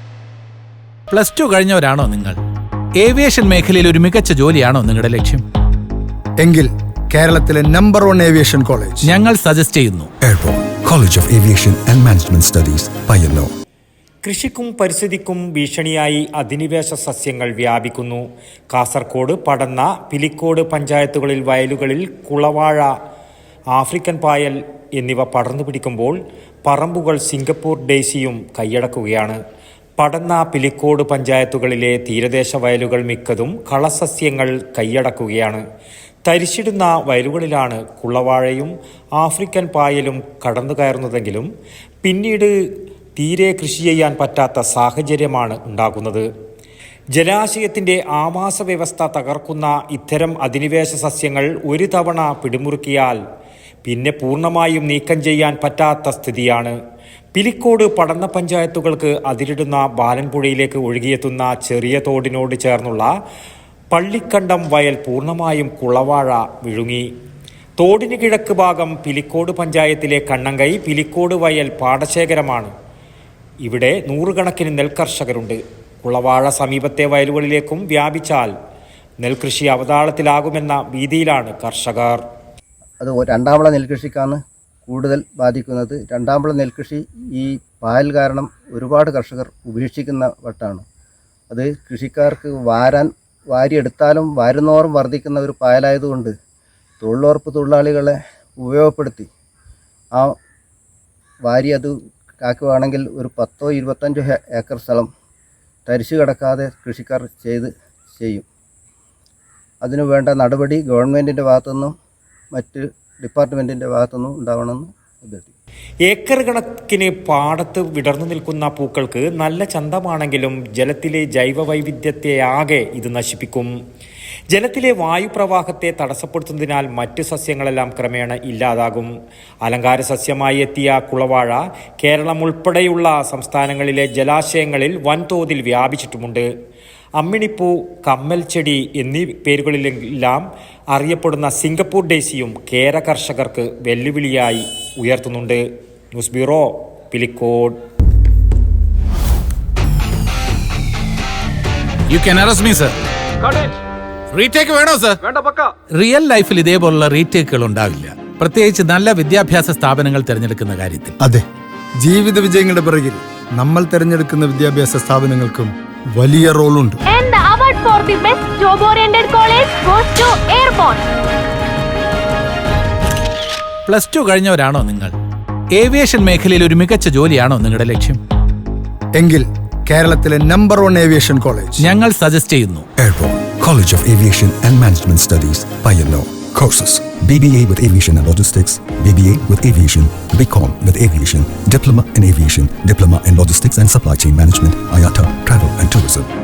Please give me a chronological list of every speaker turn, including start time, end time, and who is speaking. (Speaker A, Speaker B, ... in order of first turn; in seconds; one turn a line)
Speaker A: 1.1-2.4
Speaker A: 3.0-5.4
Speaker B: 6.4-9.1
Speaker A: 9.0-10.1
Speaker C: 10.2-13.5
Speaker D: 14.2-22.9
Speaker D: 23.7-29.4
Speaker D: 30.0-35.6
Speaker D: 36.2-41.5
Speaker D: 42.0-42.5
Speaker D: 43.1-46.3
Speaker D: 47.1-53.2
Speaker D: 53.9-56.8
Speaker D: 57.3-63.1
Speaker D: 63.9-67.1
Speaker D: 67.8-72.7
Speaker D: 73.6-78.5
Speaker D: 79.2-82.2
Speaker E: 83.0-90.8
Speaker E: 91.5-96.3
Speaker E: 97.0-99.3
Speaker E: 101.4-105.1
Speaker E: 105.8-108.5
Speaker E: 109.8-111.9
Speaker E: 112.5-115.5
Speaker D: 116.1-123.7
Speaker D: 124.5-129.1
Speaker D: 129.6-136.5
Speaker D: 137.2-147.8
Speaker A: 152.1-153.0
Speaker A: 154.3-155.2
Speaker A: 155.9-161.2
Speaker B: 161.2-161.4
Speaker B: 162.0-167.0
Speaker F: 167.1-171.0
Speaker A: 173.8-175.1
Speaker A: 175.7-178.2
Speaker B: 179.2-181.8
Speaker A: 181.8-182.9
Speaker C: 183.0-196.3